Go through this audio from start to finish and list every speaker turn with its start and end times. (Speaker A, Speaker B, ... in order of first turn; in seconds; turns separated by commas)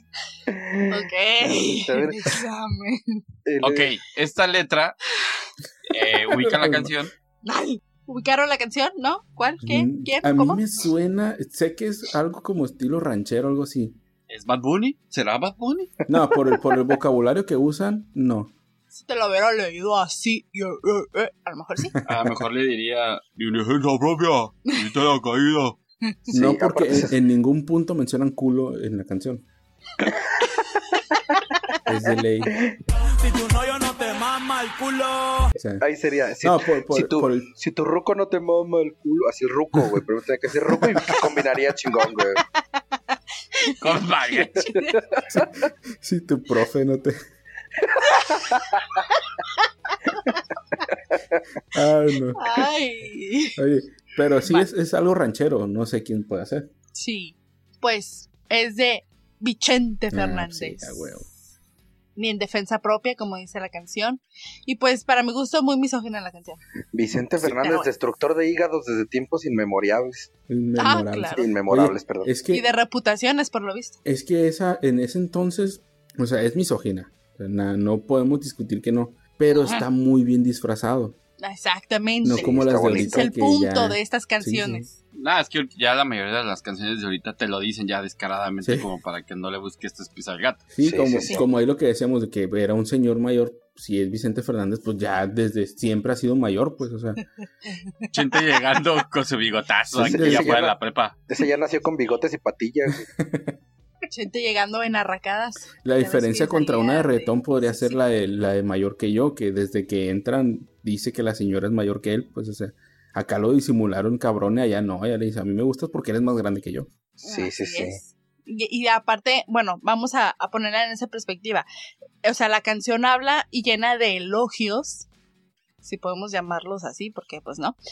Speaker A: 0.5-2.4, Speaker B: 0.9-3.2, Speaker A: 3.5-3.9, Speaker C: 3.6-5.0, Speaker C: 5.9-7.1, Speaker D: 6.4-6.9, Speaker B: 7.4-10.6, Speaker D: 9.6-14.0, Speaker C: 14.3-15.9, Speaker D: 16.1-18.5, Speaker B: 18.9-21.9, Speaker D: 22.0-22.2, Speaker C: 22.0-25.8, Speaker A: 26.3-27.1, Speaker D: 26.3-29.4, Speaker D: 31.9-32.5, Speaker A: 32.5-32.8, Speaker E: 33.5-35.4, Speaker B: 33.9-34.2, Speaker D: 35.5-35.8, Speaker A: 35.8-42.4, Speaker D: 36.4-37.5, Speaker B: 42.6-43.8, Speaker C: 43.8-44.7, Speaker B: 44.3-45.0, Speaker A: 44.6-45.5, Speaker D: 45.3-47.2, Speaker A: 47.9-48.8, Speaker B: 48.0-48.4, Speaker B: 49.4-50.8, Speaker D: 51.7-52.6, Speaker B: 52.4-53.6, Speaker D: 53.6-56.7, Speaker B: 56.9-61.2, Speaker D: 60.1-61.2, Speaker B: 62.1-66.6, Speaker A: 66.9-70.3, Speaker B: 67.4-67.9, Speaker D: 70.5-72.6, Speaker B: 70.8-71.5, Speaker A: 71.4-72.3, Speaker B: 72.5-74.0, Speaker D: 74.0-81.2, Speaker B: 79.5-79.8, Speaker B: 81.4-84.9, Speaker D: 82.2-84.9, Speaker A: 82.3-83.2, Speaker C: 85.1-90.7, Speaker D: 90.7-97.2, Speaker A: 90.8-91.4, Speaker B: 97.6-98.1, Speaker C: 98.1-101.2, Speaker D: 99.9-100.5, Speaker A: 100.0-100.8, Speaker A: 101.3-103.1, Speaker D: 103.2-103.5, Speaker B: 104.1-108.0, Speaker D: 105.8-116.9, Speaker A: 117.2-118.0, Speaker B: 117.2-121.7, Speaker B: 122.2-125.1, Speaker B: 125.8-127.8